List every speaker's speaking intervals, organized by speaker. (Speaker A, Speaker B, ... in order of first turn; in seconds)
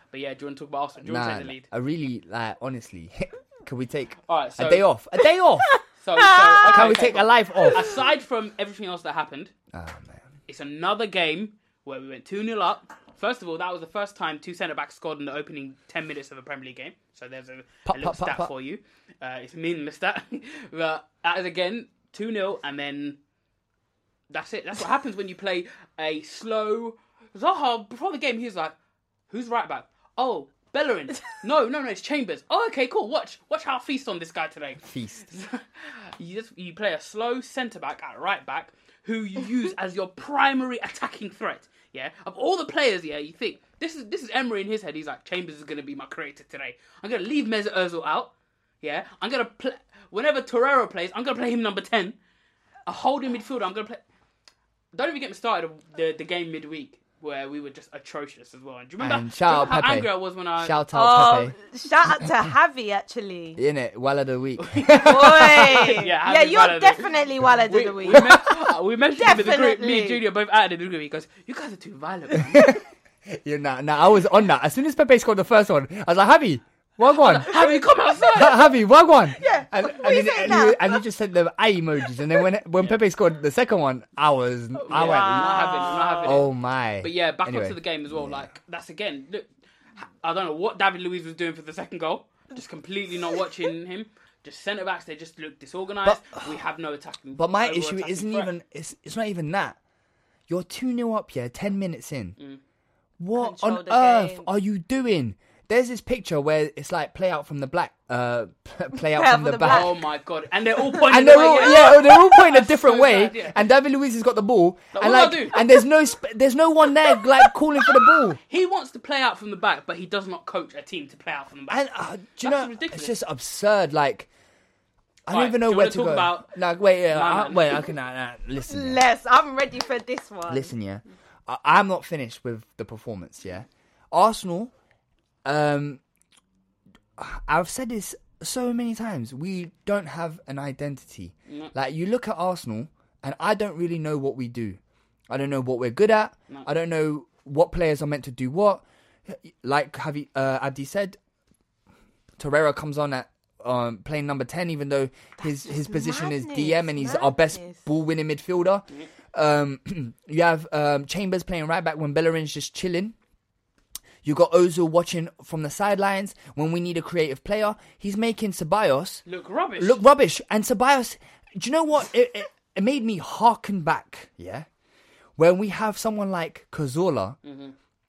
Speaker A: 0.1-1.7, 4.3-4.9, 6.0-9.5, 10.5-23.2, 24.3-28.8, 29.3-52.2, 52.9-54.0, 54.9-60.8, 64.6-67.1, 67.7-72.8, 77.1-78.7, 84.9-98.5, 109.6-113.6, 114.9-115.7, 118.5-121.8, 122.4-123.2, 125.3-126.6, 127.1-127.8, 141.5-141.7, 169.3-170.0, 177.4-177.8
Speaker B: 1.0-5.8, 6.6-7.9, 9.7-10.3, 17.9-18.5, 34.8-35.3, 59.0-61.5, 63.6-66.0, 72.5-77.6, 78.3-88.5, 96.0-96.4, 97.3-99.8, 100.5-102.4, 103.2-110.0, 111.0-118.4, 121.7-124.3, 125.3-129.0, 130.5-134.7, 135.4-136.0, 137.2-151.2, 152.4-163.2, 164.2-169.2, 169.8-174.7, 175.4-177.4
Speaker C: 6.4-6.9, 60.9-63.6, 65.0-68.4, 69.2-70.2, 79.4-81.0, 84.8-86.4, 103.4-104.5, 108.9-110.0, 110.9-112.2, 128.7-130.7, 155.4-157.8